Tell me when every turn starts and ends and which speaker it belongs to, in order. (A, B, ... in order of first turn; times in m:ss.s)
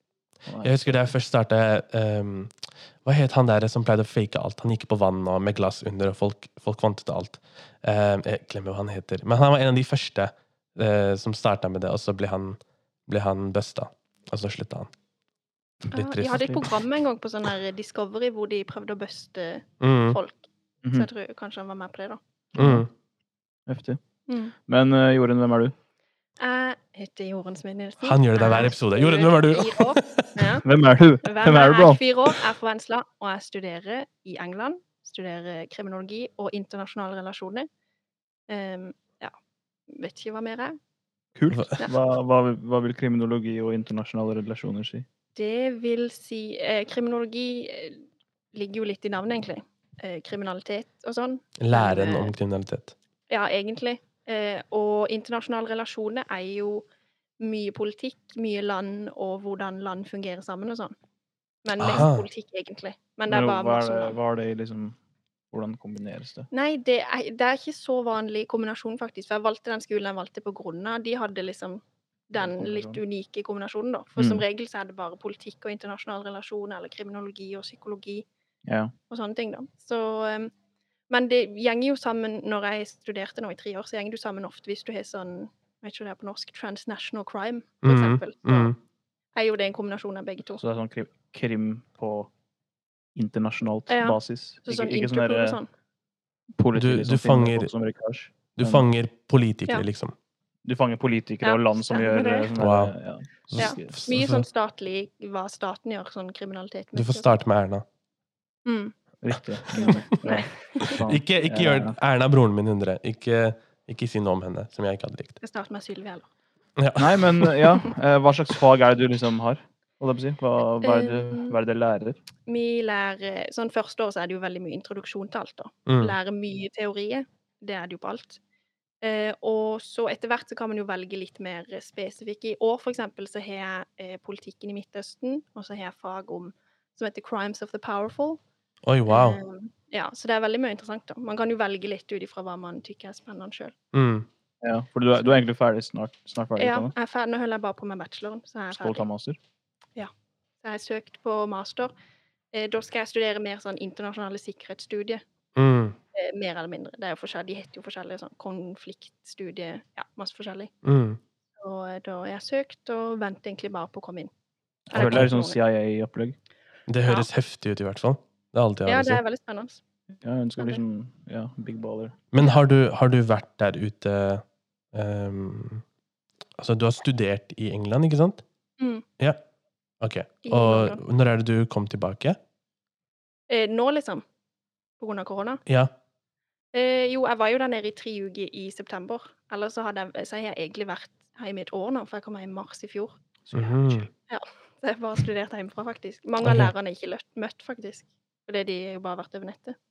0:00.4-0:01.0 A
0:00.6-0:14.9 B
0:15.9-0:16.8 B
0:15.9-0:22.2 C
0:19.8-0:20.2 B
0:22.5-0:22.8 A
0:22.6-0:22.9 B
0:23.7-0:24.0 A
0:24.3-0:24.5 C
0:24.7-0:25.7 A
0:26.4-0:30.6 C
0:28.0-0:30.4 B
0:30.6-0:32.0 A
0:31.2-0:37.7 C
0:38.5-0:39.3 C
0:39.9-0:40.8 C
0:41.3-0:45.0 A
0:41.5-0:41.8 B
0:45.3-0:52.3 C
0:51.6-0:52.9 B
0:53.3-0:56.8 C
0:57.4-1:00.9 C
1:01.6-1:04.2 C
1:01.8-1:02.3 B
1:03.3-1:05.0 A
1:05.5-1:06.5 A
1:06.5-1:18.2 C
1:12.4-1:13.0 A
1:14.2-1:14.4 A
1:18.6-1:18.9 A
1:19.1-1:20.5 C
1:21.1-1:28.7 C
1:27.8-1:28.8 B
1:29.3-1:30.6 C
1:30.6-1:32.3 A
1:33.2-1:35.6 A
1:33.9-1:35.7 C
1:36.6-1:38.8 A
1:36.7-1:37.7 B
1:38.5-1:40.1 B
1:40.6-1:44.0 A
1:41.4-1:42.5 C
1:42.6-1:42.9 B
1:43.5-1:44.4 B
1:43.6-1:47.3 C
1:46.9-1:47.8 B
1:48.6-1:49.0 C
1:49.2-1:52.0 A
1:49.7-1:50.0 B
1:49.7-1:51.0 C
1:50.8-1:55.4 B
1:55.4-1:56.3 C
1:56.8-1:57.8 B
1:57.0-2:02.2 A
2:00.8-2:01.6 C
2:02.4-2:08.4 C
2:05.8-2:06.2 B
2:09.0-2:18.4 C
2:18.8-2:19.4 B
2:19.1-2:23.7 C
2:23.9-2:24.3 B
2:24.6-2:26.9 A
2:26.6-2:29.1 C
2:28.7-2:29.4 A
2:30.6-2:31.9 C
2:32.5-2:35.2 C
2:35.5-2:36.0 B
2:36.1-2:40.7 C
2:40.8-2:41.2 B
2:41.6-2:44.3 C
2:44.9-2:45.6 C
2:44.9-2:46.4 A
2:44.9-2:45.3 B
2:46.9-2:49.2 B
2:48.8-2:49.8 C
2:50.2-2:52.2 A
2:52.3-2:55.8 B
2:56.6-2:58.4 B
2:58.8-2:59.0 C
3:00.0-3:02.4 B
3:00.4-3:01.0 C
3:03.5-3:04.2 C
3:05.0-3:05.6 C
3:05.6-3:05.9 B
3:06.7-3:13.2 C
3:13.5-3:14.1 A
3:13.5-3:14.1 B
3:14.3-3:19.8 C
3:16.4-3:16.7 B